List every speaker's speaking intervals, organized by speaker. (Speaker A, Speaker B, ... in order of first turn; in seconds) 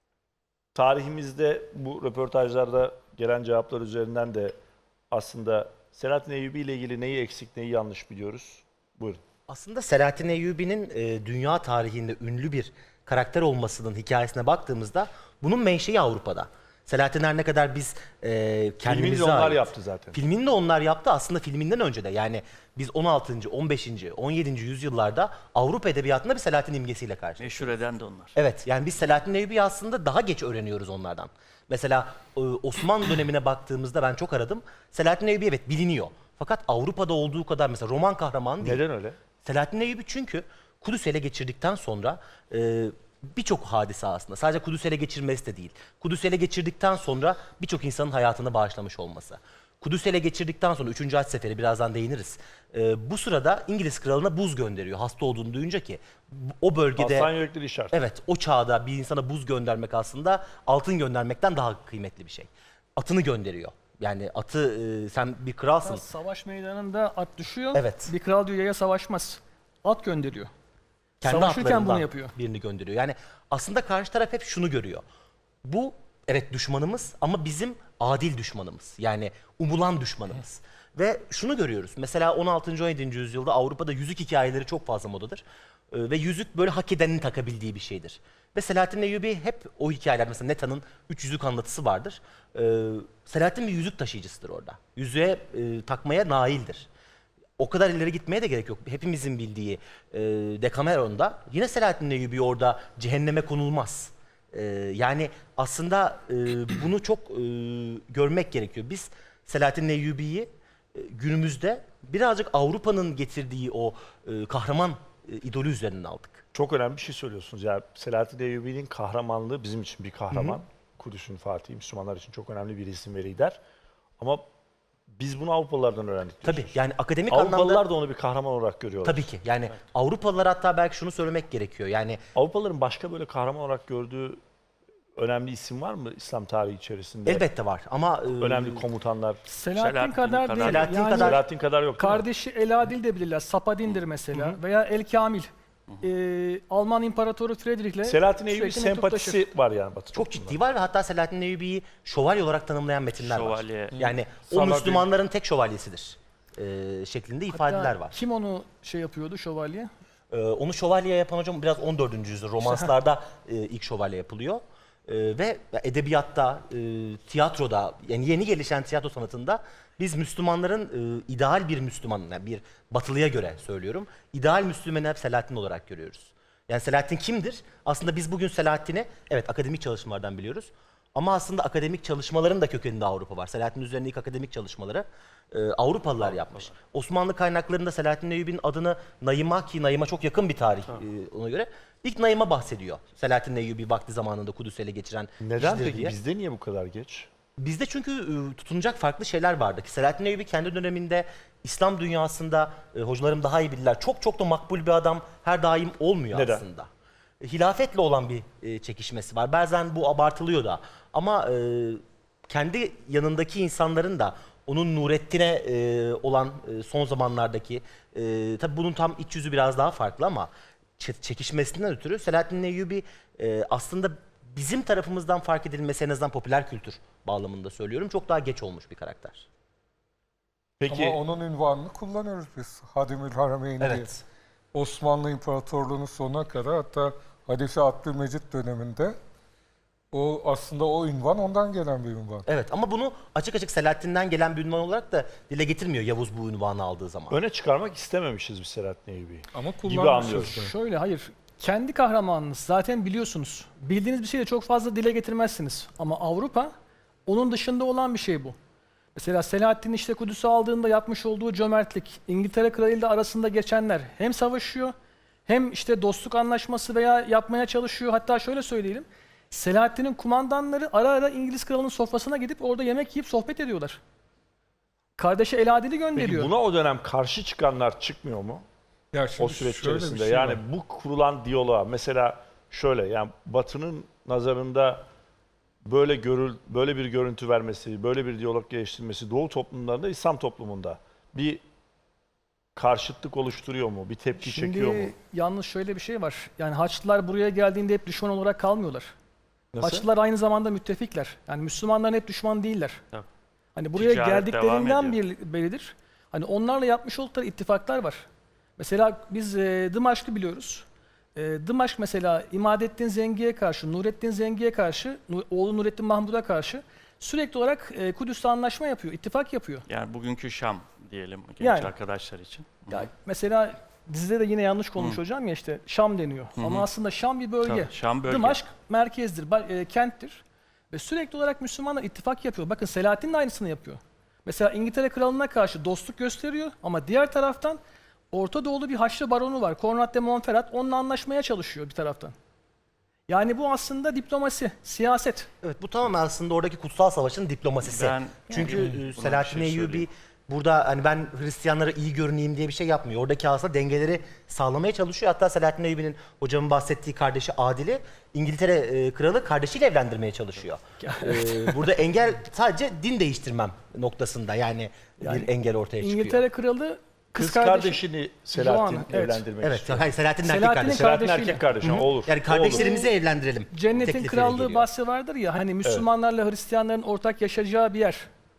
Speaker A: 0.7-4.5, 5.1-9.2, 18.8-20.2, 38.6-39.2, 57.0-57.9, 116.5-123.6, 124.2-124.4, 125.2-126.7, 127.3-129.3, 132.3-134.4, 135.2-137.4, 138.4-139.4, 141.1-142.2, 148.0-150.6, 195.4-197.3, 206.3-206.6, 230.8-231.2, 247.3-250.6, 276.1-278.6, 279.4-285.0, 285.8-291.6, 292.8-295.1, 299.7-300.0, 367.4-370.1, 370.9-372.9
Speaker B: 9.5-27.8, 28.3-38.8, 39.4-57.3, 57.9-66.0, 67.7-68.1, 71.2-75.0, 75.6-96.9, 97.6-116.4, 126.4-127.8, 129.0-132.2, 137.2-138.8, 140.6-141.4, 150.1-158.1, 160.3-196.1, 197.6-206.9, 207.4-229.4, 233.8-234.2, 242.4-247.3, 345.6-366.4, 369.6-371.2, 371.8-374.9
Speaker C: 27.4-28.3, 139.8-140.9, 143.8-144.4, 153.2-154.0, 303.9-305.2, 319.9-323.1, 326.6-326.9, 327.6-328.6, 347.8-350.1
Speaker D: 65.8-70.5, 71.2-72.3, 139.5-141.4, 142.0-145.5, 146.0-149.4, 157.5-159.9, 250.5-256.7, 257.3-258.6, 259.1-264.9, 265.5-274.0, 275.2-276.5, 294.4-299.1, 299.8-303.0, 303.7-308.2, 308.8-319.9, 321.6-321.9, 322.9-337.8, 338.3-342.3, 343.3-345.5, 361.0-361.7, 365.2-365.5, 366.0-368.0, 368.5-369.4, 370.4-371.6, 372.7-373.1, 373.7-378.3
Speaker E: 153.9-155.1, 230.9-234.1, 234.7-239.2, 240.1-242.4, 249.5-250.7, 279.1-280.6